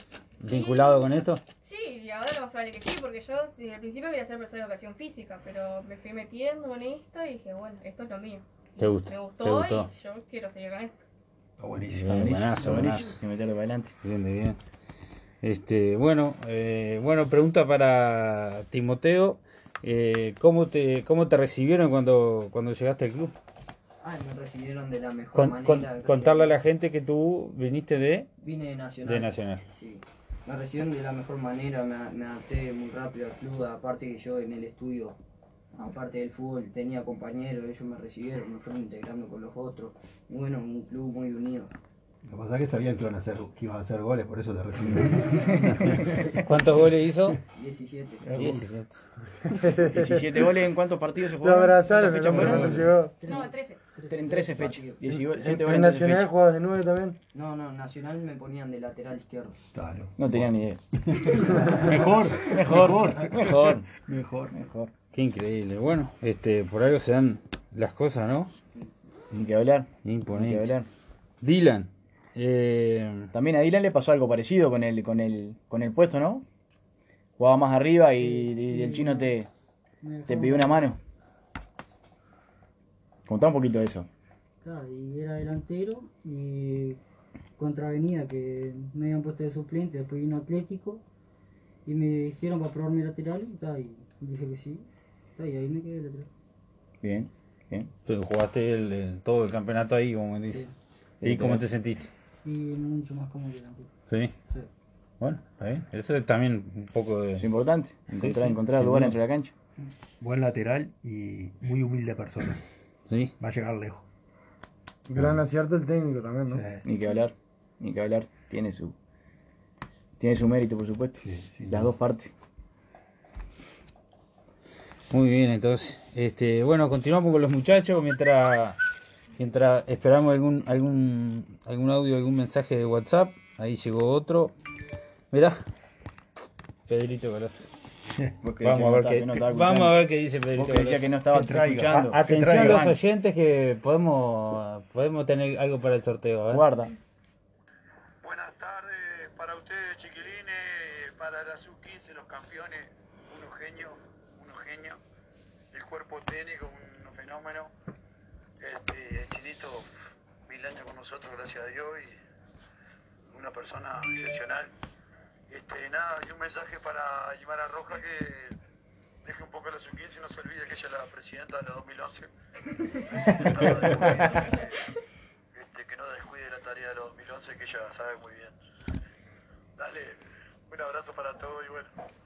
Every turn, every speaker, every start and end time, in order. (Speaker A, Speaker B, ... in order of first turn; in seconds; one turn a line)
Speaker A: 0.4-1.4
Speaker B: 0.4-11.0
Speaker A: 8.8-9.9
Speaker C: 11.6-12.3
Speaker A: 11.9-13.2
Speaker D: 12.1-13.9
Speaker A: 14.0-14.6
Speaker A: 15.4-23.3
Speaker E: 24.0-26.6
Speaker A: 25.3-28.3
Speaker E: 28.4-35.2
Speaker A: 29.1-29.6
Speaker E: 35.7-41.7
Speaker C: 42.2-46.4
Speaker A: 45.7-47.4
Speaker E: 47.5-48.3
Speaker C: 48.2-48.7
Speaker A: 48.4-49.0
Speaker F: 49.5-50.2
Speaker D: 49.9-53.0
Speaker F: 51.4-53.2
Speaker G: 52.5-53.5
Speaker B: 53.2-53.8
Speaker E: 54.0-55.0
Speaker D: 54.1-56.3
Speaker F: 55.3-57.2
Speaker E: 57.3-59.7
Speaker C: 59.7-64.5
Speaker D: 60.2-60.8
Speaker E: 61.6-61.9
Speaker D: 62.4-63.9
Speaker D: 64.5-64.9
Speaker A: 65.1-68.5
Speaker D: 69.3-70.9
Speaker A: 70.0-70.7
Speaker A: 71.4-73.3
Speaker D: 73.3-76.4
Speaker D: 77.4-79.5
Speaker G: 78.2-79.3
Speaker G: 80.0-80.9
Speaker D: 80.3-81.0
Speaker D: 83.3-84.1
Speaker G: 84.6-87.0
Speaker G: 87.6-91.0
Speaker G: 91.8-96.3
Speaker D: 97.0-97.9
Speaker A: 98.0-100.6
Speaker D: 101.2-101.6
Speaker A: 101.2-102.1
Speaker G: 102.4-103.9
Speaker A: 104.1-104.3
Speaker A: 105.2-107.5
Speaker D: 107.4-109.5
Speaker A: 108.1-109.2
Speaker C: 110.2-112.6
Speaker C: 113.4-114.0
Speaker F: 115.1-116.6
Speaker C: 115.2-115.4
Speaker C: 116.5-116.8
Speaker D: 116.8-118.9
Speaker D: 120.2-122.3
Speaker C: 121.2-121.9
Speaker A: 125.1-128.8
Speaker A: 129.4-134.5
Speaker A: 135.3-135.6
Speaker A: 136.9-137.7
Speaker D: 138.4-140.0
Speaker A: 138.6-141.2
Speaker D: 140.5-143.0
Speaker C: 141.3-142.9
Speaker A: 141.9-146.6
Speaker D: 146.5-146.9
Speaker H: 148.2-155.0
Speaker H: 155.7-157.7
Speaker H: 158.6-159.9
Speaker H: 160.4-162.2
Speaker H: 163.3-164.7
Speaker H: 165.5-168.6
Speaker H: 169.2-172.3
Speaker H: 173.1-174.8
Speaker B: 174.2-174.6
Speaker H: 175.5-178.5
Speaker H: 179.8-181.9